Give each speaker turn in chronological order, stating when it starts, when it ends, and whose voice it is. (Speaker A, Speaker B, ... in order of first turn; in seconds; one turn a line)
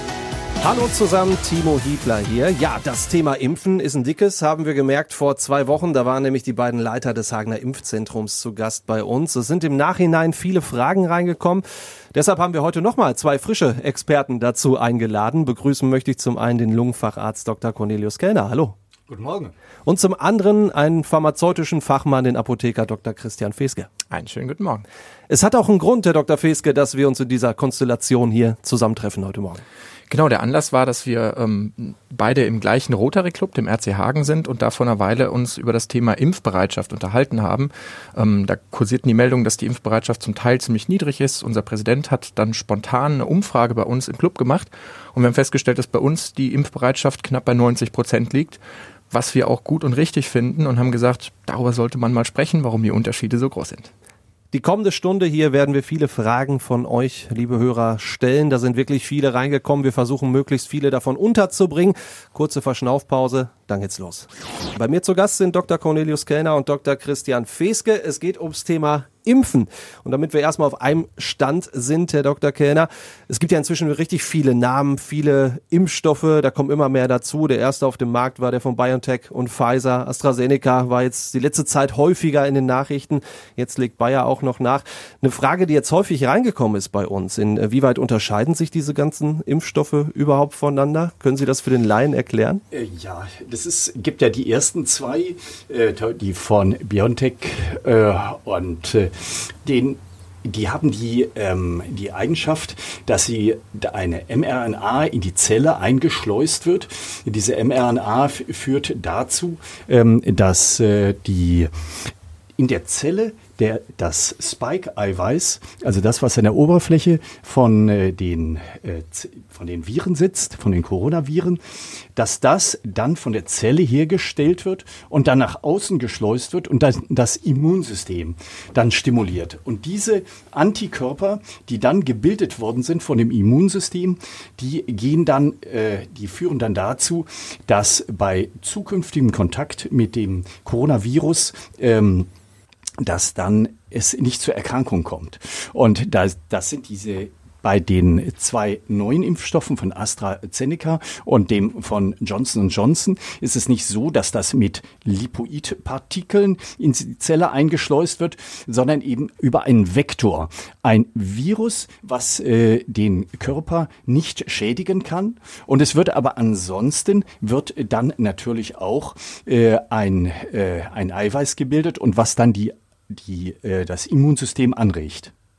Speaker A: 0.6-18.8
Speaker B: 19.1-19.5
Speaker A: 19.9-23.9
Speaker C: 24.1-24.9
Speaker A: 25.3-29.6
Speaker C: 30.1-48.6
Speaker C: 49.1-53.9
Speaker A: 54.5-92.6
Speaker B: 92.7-111.7
Speaker B: 112.6-121.6
Speaker B: 122.2-142.3
Speaker B: 143.0-175.3